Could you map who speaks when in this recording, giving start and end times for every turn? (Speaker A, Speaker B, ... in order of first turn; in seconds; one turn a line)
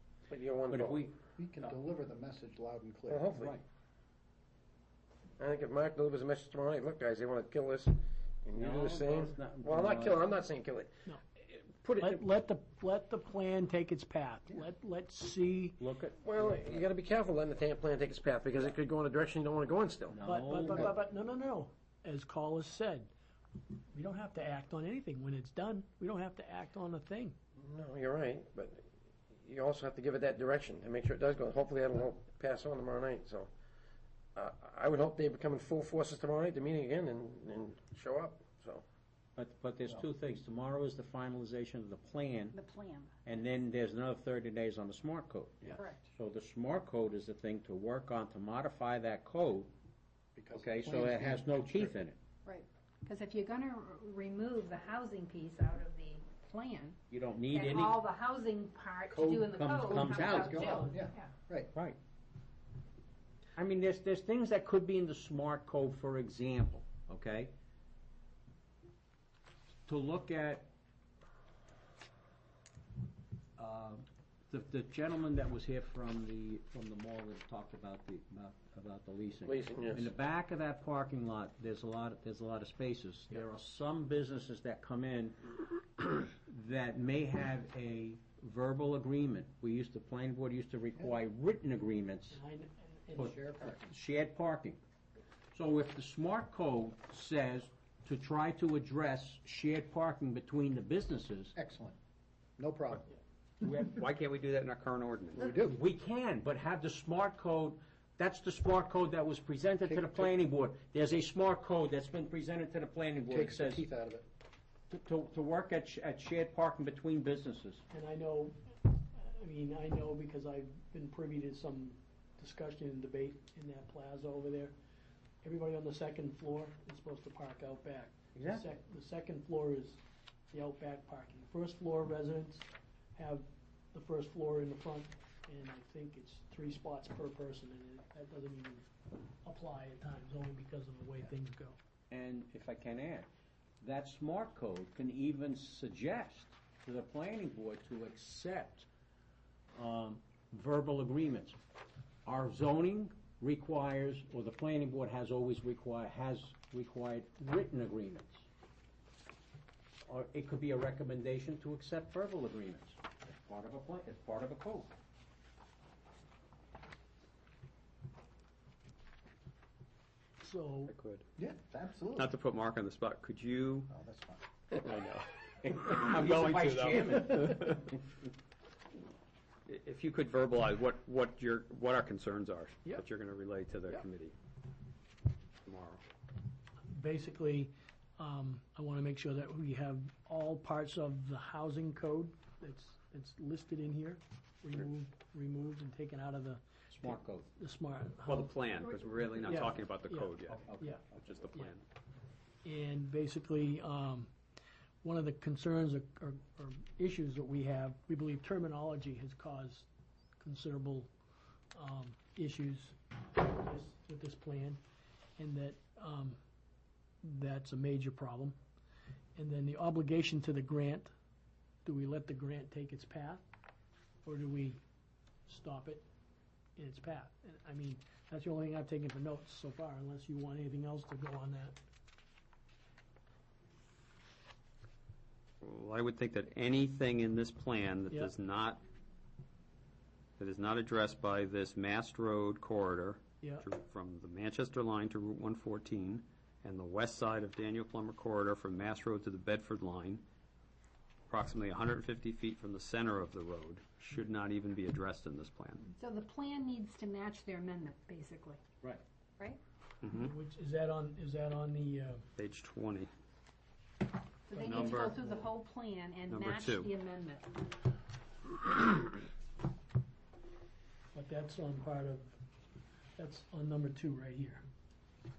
Speaker A: 0.3-1.0
Speaker B: 0.7-1.7
Speaker C: 1.4-3.6
Speaker A: 3.1-3.5
Speaker A: 5.4-10.9
Speaker B: 8.5-10.3
Speaker B: 11.4-12.2
Speaker D: 12.0-15.8
Speaker B: 15.8-16.9
Speaker A: 16.2-20.2
Speaker B: 20.1-20.9
Speaker D: 20.2-23.1
Speaker D: 23.9-27.4
Speaker A: 27.6-28.9
Speaker A: 29.4-33.5
Speaker A: 34.3-38.8
Speaker B: 39.4-42.5
Speaker E: 42.5-43.2
Speaker B: 43.2-49.7
Speaker E: 45.7-46.1
Speaker C: 50.3-52.0
Speaker B: 50.5-52.2
Speaker E: 52.4-57.0
Speaker B: 57.1-58.0
Speaker E: 57.5-61.3
Speaker C: 59.1-61.7
Speaker B: 59.5-60.7
Speaker B: 61.7-62.0
Speaker B: 63.5-67.5
Speaker B: 69.9-70.7
Speaker B: 73.6-92.4
Speaker A: 79.4-80.1
Speaker D: 92.3-93.3
Speaker B: 93.1-94.8
Speaker C: 93.2-93.9
Speaker B: 95.5-101.5
Speaker C: 101.5-102.0
Speaker C: 102.6-103.1
Speaker B: 103.6-103.9
Speaker F: 103.8-105.5
Speaker C: 105.3-105.8
Speaker B: 105.5-113.8
Speaker C: 109.8-110.3
Speaker C: 113.3-114.2
Speaker B: 114.9-117.8
Speaker D: 117.9-124.7
Speaker D: 125.4-130.0
Speaker B: 128.3-128.6
Speaker D: 130.5-138.9
Speaker D: 139.4-141.8
Speaker B: 142.1-143.3
Speaker B: 143.8-148.9
Speaker B: 149.7-151.6
Speaker B: 152.2-158.4
Speaker B: 160.1-164.9
Speaker D: 170.4-170.9
Speaker F: 170.9-171.2
Speaker C: 171.4-172.3
Speaker F: 172.2-173.9
Speaker C: 173.9-174.4
Speaker F: 174.8-177.9
Speaker B: 175.6-177.9
Speaker F: 179.7-184.3
Speaker F: 185.6-186.0
Speaker D: 186.9-198.7
Speaker B: 196.9-197.4
Speaker F: 198.2-201.8
Speaker D: 199.3-201.0
Speaker B: 200.6-200.9
Speaker D: 202.6-204.3
Speaker D: 205.0-209.8
Speaker D: 210.4-211.1
Speaker D: 211.7-214.8
Speaker D: 215.4-216.4
Speaker D: 217.2-218.6
Speaker D: 219.3-221.1
Speaker D: 221.8-223.4
Speaker D: 224.2-224.8
Speaker D: 225.5-226.0
Speaker D: 226.8-231.8
Speaker F: 235.6-238.8
Speaker F: 240.4-250.2
Speaker D: 243.4-243.7
Speaker F: 251.3-255.9
Speaker E: 256.0-258.6
Speaker F: 260.0-260.3
Speaker D: 260.1-262.2
Speaker F: 262.4-263.1
Speaker E: 264.5-267.7
Speaker F: 264.5-265.2
Speaker F: 266.3-266.9
Speaker D: 271.1-272.4
Speaker D: 273.2-274.6